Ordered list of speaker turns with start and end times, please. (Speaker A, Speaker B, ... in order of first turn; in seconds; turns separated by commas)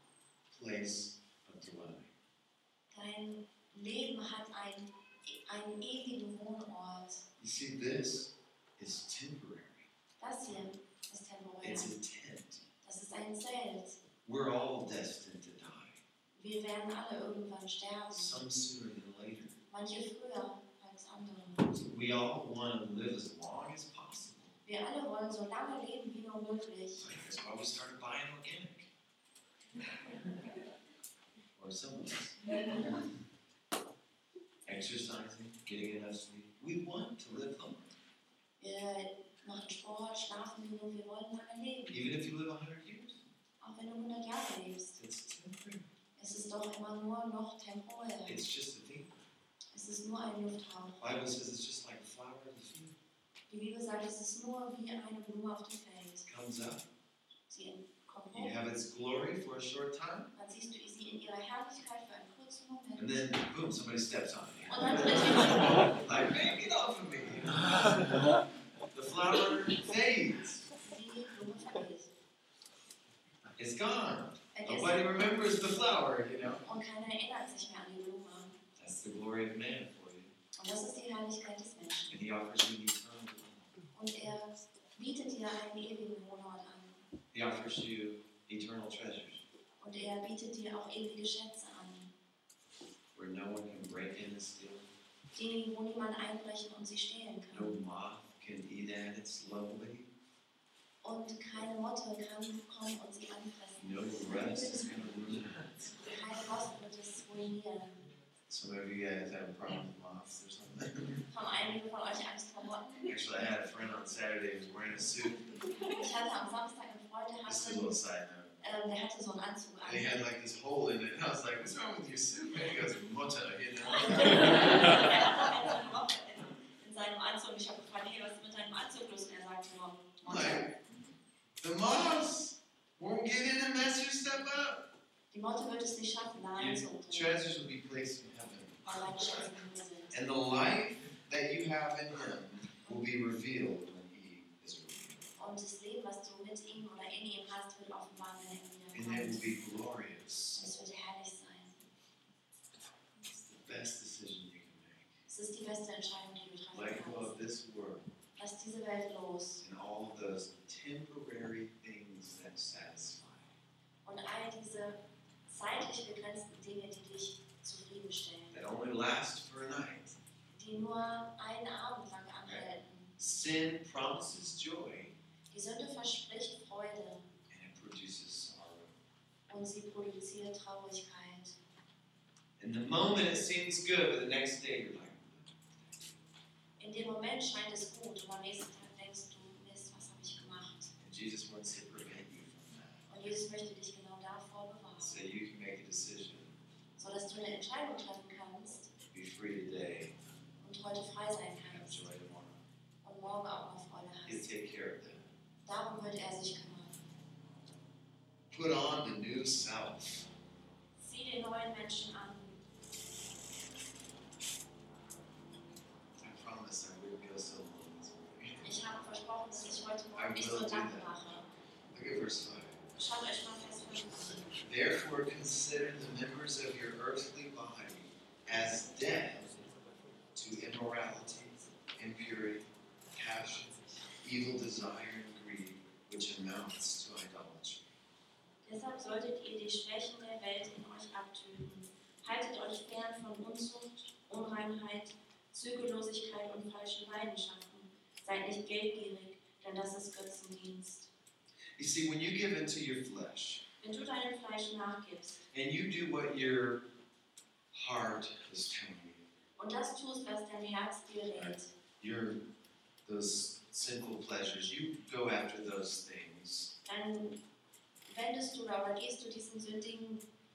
Speaker A: 0.5-2.1, Speaker B: 2.9-7.2, Speaker A: 7.4-9.9, Speaker B: 10.2-11.9, Speaker A: 11.6-12.6, Speaker B: 12.8-14.0, Speaker A: 14.2-16.0, Speaker B: 16.4-18.4, Speaker A: 18.1-19.5, Speaker B: 19.7-21.7, Speaker A: 21.7-24.6, Speaker B: 24.6-27.1, Speaker A: 27.0-28.9, Speaker A: 31.5-32.4, Speaker A: 34.6-37.9, Speaker B: 38.6-42.0, Speaker A: 41.9-43.3, Speaker B: 43.6-45.0, Speaker A: 45.0-45.9, Speaker B: 46.1-48.4, Speaker A: 48.2-49.2, Speaker B: 49.7-51.0, Speaker A: 51.0-52.9, Speaker B: 53.5-56.3, Speaker A: 56.2-56.9, Speaker B: 57.5-58.6, Speaker A: 58.3-60.3, Speaker B: 60.3-63.3, Speaker A: 63.0-68.4, Speaker B: 64.7-65.9, Speaker A: 68.9-70.7, Speaker B: 70.8-72.1, Speaker A: 73.6-76.6, Speaker B: 74.5-75.1, Speaker B: 76.6-78.6, Speaker A: 78.8-80.3, Speaker B: 80.6-82.2, Speaker A: 82.1-83.7, Speaker B: 83.9-87.0, Speaker A: 87.3-89.4, Speaker B: 89.8-92.1, Speaker A: 93.1-94.9, Speaker B: 95.3-97.7, Speaker A: 97.5-100.1, Speaker B: 101.0-105.2, Speaker A: 103.8-105.9, Speaker B: 105.9-108.0, Speaker A: 108.5-111.2, Speaker B: 111.3-113.1, Speaker A: 113.0-115.4, Speaker B: 115.8-117.9, Speaker A: 117.5-118.5, Speaker B: 118.6-120.2, Speaker A: 119.8-125.0, Speaker B: 124.0-130.7, Speaker A: 130.2-130.7, Speaker A: 131.6-134.8, Speaker B: 135.3-137.3, Speaker A: 136.6-139.5, Speaker B: 138.8-140.2, Speaker A: 140.1-145.3, Speaker B: 145.4-149.5, Speaker A: 148.9-150.6, Speaker B: 150.5-151.9, Speaker A: 153.4-155.1, Speaker B: 155.2-157.4, Speaker A: 156.7-158.1, Speaker B: 158.4-159.6, Speaker A: 159.6-163.5, Speaker B: 164.0-168.6, Speaker A: 168.5-170.2, Speaker B: 170.5-173.2, Speaker A: 173.2-175.1, Speaker B: 175.5-177.3, Speaker A: 177.5-178.9, Speaker B: 179.5-181.6, Speaker A: 182.6-186.2, Speaker B: 186.8-190.9, Speaker A: 191.0-193.4, Speaker B: 193.1-195.2, Speaker A: 195.0-196.5, Speaker B: 196.9-198.9, Speaker A: 199.1-200.1, Speaker B: 200.6-202.0, Speaker A: 201.7-202.6, Speaker B: 203.0-204.5, Speaker A: 204.2-205.3, Speaker B: 205.6-207.0, Speaker A: 208.5-210.3, Speaker B: 211.0-212.6, Speaker A: 216.2-218.7, Speaker B: 218.6-221.4, Speaker A: 219.7-221.2, Speaker A: 221.9-222.8, Speaker B: 222.9-224.5, Speaker A: 224.6-229.6, Speaker A: 230.3-238.0, Speaker B: 238.6-251.1, Speaker A: 251.8-253.6, Speaker B: 253.8-255.4, Speaker A: 255.5-256.8, Speaker A: 257.7-259.2, Speaker B: 259.6-261.7, Speaker A: 261.3-262.4, Speaker A: 263.0-266.7, Speaker B: 266.8-267.4, Speaker B: 268.1-270.2